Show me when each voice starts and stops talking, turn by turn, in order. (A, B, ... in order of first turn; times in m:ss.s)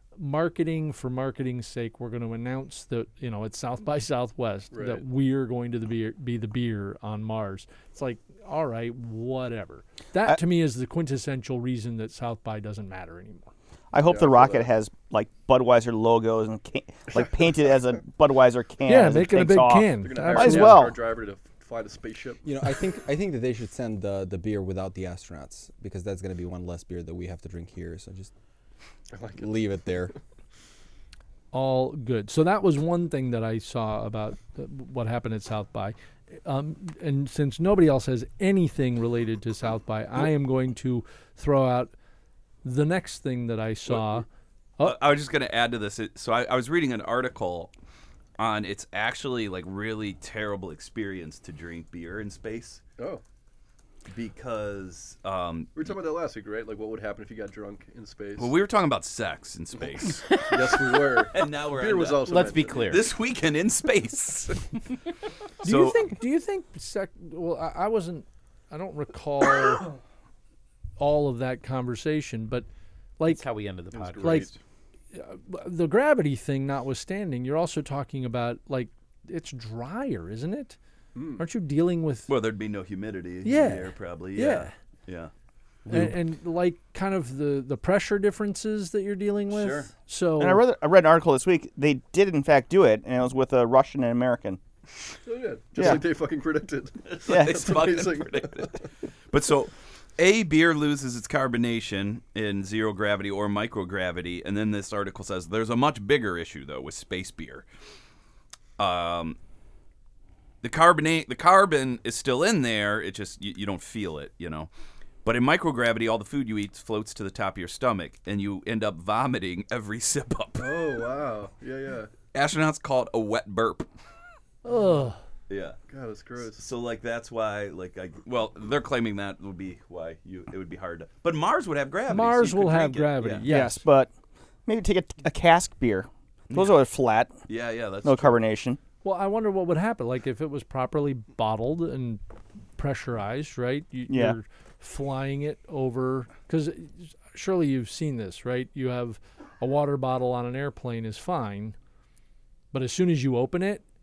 0:00.2-0:13.5 A
0:04.7-0:05.0 B
0:13.9-0:21.0 C
0:14.0-0:14.7 B
0:18.9-0:20.8 A
0:20.0-0:22.4 B
0:22.4-0:28.3 D
0:29.1-0:29.5 B
0:29.4-0:30.1 D
0:31.5-0:41.9 A
0:42.6-0:44.3 A
0:44.8-0:47.7 E
0:48.4-0:52.8 E
0:54.1-0:55.9 E
0:55.8-0:58.5 B
0:58.4-1:04.6 E
1:00.5-1:02.9 B
1:02.2-1:03.1 F
1:05.6-1:09.9 A
1:05.6-1:06.0 E
1:11.0-1:12.7 A
1:13.2-1:13.4 A
1:13.2-1:14.6 F
1:13.9-1:14.5 B
1:14.2-1:14.5 A
1:15.1-1:20.8 A
1:21.2-1:21.4 B
1:21.4-1:22.3 A
1:22.3-1:25.3 E
1:23.4-1:24.7 A
1:25.9-1:30.6 A
1:29.5-1:29.9 E
1:30.4-1:34.6 C
1:35.3-1:38.7 B
1:35.8-1:36.0 C
1:37.1-1:38.8 E
1:37.3-1:37.7 C
1:39.3-1:47.6 E
1:48.8-1:49.4 E
1:50.6-1:54.7 E
1:55.2-2:01.0 E
2:00.6-2:02.1 B
2:02.3-2:03.9 E
2:04.6-2:05.2 A
2:05.5-2:05.8 E
2:05.9-2:06.7 B
2:06.5-2:13.5 E
2:12.1-2:13.8 A
2:13.4-2:14.1 C
2:14.7-2:17.3 C
2:16.5-2:16.8 E
2:17.5-2:18.4 E
2:18.0-2:18.8 C
2:19.0-2:22.2 A
2:22.8-2:31.8 A
2:24.1-2:24.4 C
2:32.7-2:33.8 A